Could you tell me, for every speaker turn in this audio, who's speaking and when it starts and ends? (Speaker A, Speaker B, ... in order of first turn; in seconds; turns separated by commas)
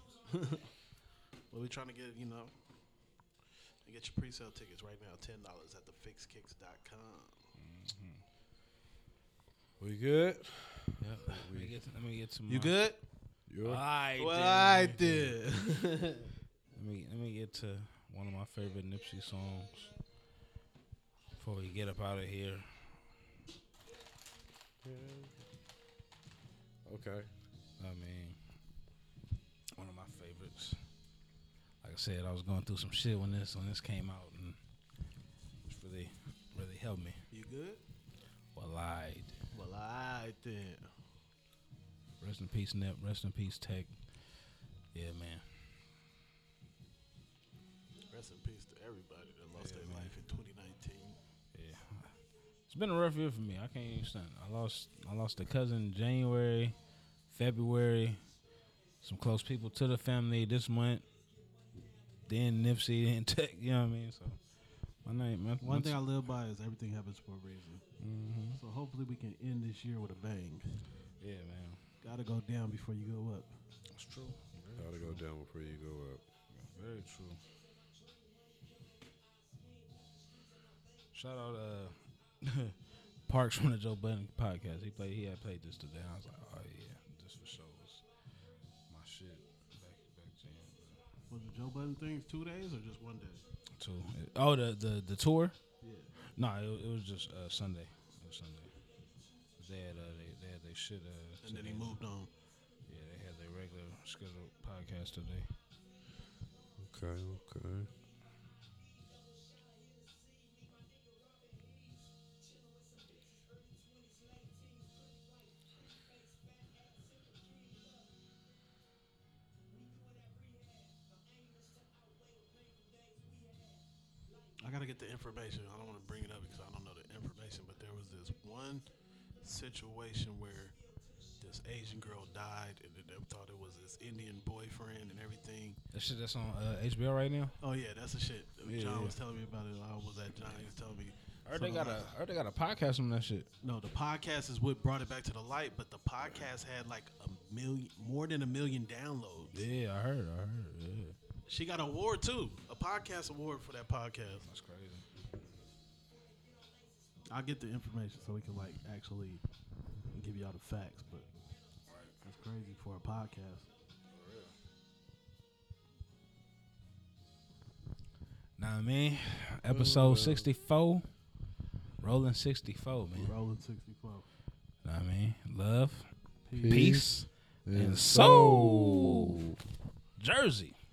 Speaker A: 0.3-0.7, Speaker A: 1.5-2.5, Speaker A: 3.9-7.5, Speaker B: 7.5-8.2, Speaker C: 9.8-11.8, Speaker B: 11.0-12.8, Speaker A: 12.5-13.0, Speaker C: 13.5-13.8, Speaker B: 13.6-15.3, Speaker A: 14.2-16.3, Speaker B: 16.8-19.9, Speaker B: 21.4-22.7, Speaker C: 24.8-25.4, Speaker C: 26.9-27.3, Speaker B: 27.8-28.4, Speaker B: 29.8-30.8, Speaker B: 31.8-34.6, Speaker B: 35.7-37.2, Speaker A: 37.3-37.8, Speaker B: 38.5-39.4, Speaker A: 39.5-40.9, Speaker B: 42.2-44.0, Speaker B: 44.9-45.4, Speaker A: 48.1-51.2, Speaker B: 49.6-50.1, Speaker B: 51.5-52.1, Speaker B: 52.7-56.8, Speaker B: 57.3-58.2, Speaker B: 59.0-61.1, Speaker B: 62.3-64.4, Speaker B: 65.0-66.0, Speaker A: 65.6-67.8, Speaker B: 68.0-68.6, Speaker A: 68.6-70.8, Speaker B: 71.2-71.8, Speaker A: 72.0-73.5, Speaker B: 73.9-75.2, Speaker C: 74.7-76.2, Speaker B: 76.5-77.4, Speaker B: 81.1-82.8, Speaker B: 83.3-88.0, Speaker B: 88.9-91.0, Speaker A: 91.3-93.4, Speaker B: 93.8-95.6, Speaker A: 95.8-96.1, Speaker B: 96.3-98.7, Speaker B: 99.6-102.0, Speaker A: 101.4-102.3, Speaker B: 102.9-105.5, Speaker C: 106.8-107.9, Speaker A: 124.6-128.9, Speaker A: 129.4-130.8, Speaker A: 131.4-135.8, Speaker B: 135.9-137.6, Speaker A: 137.6-142.1, Speaker B: 138.7-139.2, Speaker B: 141.5-143.5, Speaker A: 143.6-149.6, Speaker B: 149.5-151.2, Speaker A: 151.5-154.5, Speaker B: 154.4-155.1, Speaker A: 157.3-159.4, Speaker A: 160.1-161.3, Speaker B: 161.9-162.1, Speaker A: 162.2-163.7, Speaker B: 164.1-164.5, Speaker B: 168.6-171.1, Speaker C: 169.7-170.5, Speaker B: 172.0-173.3, Speaker A: 173.2-174.3, Speaker B: 174.8-176.1, Speaker A: 176.5-177.1, Speaker C: 176.6-177.1, Speaker B: 176.6-179.4, Speaker C: 177.7-179.6, Speaker B: 180.2-180.8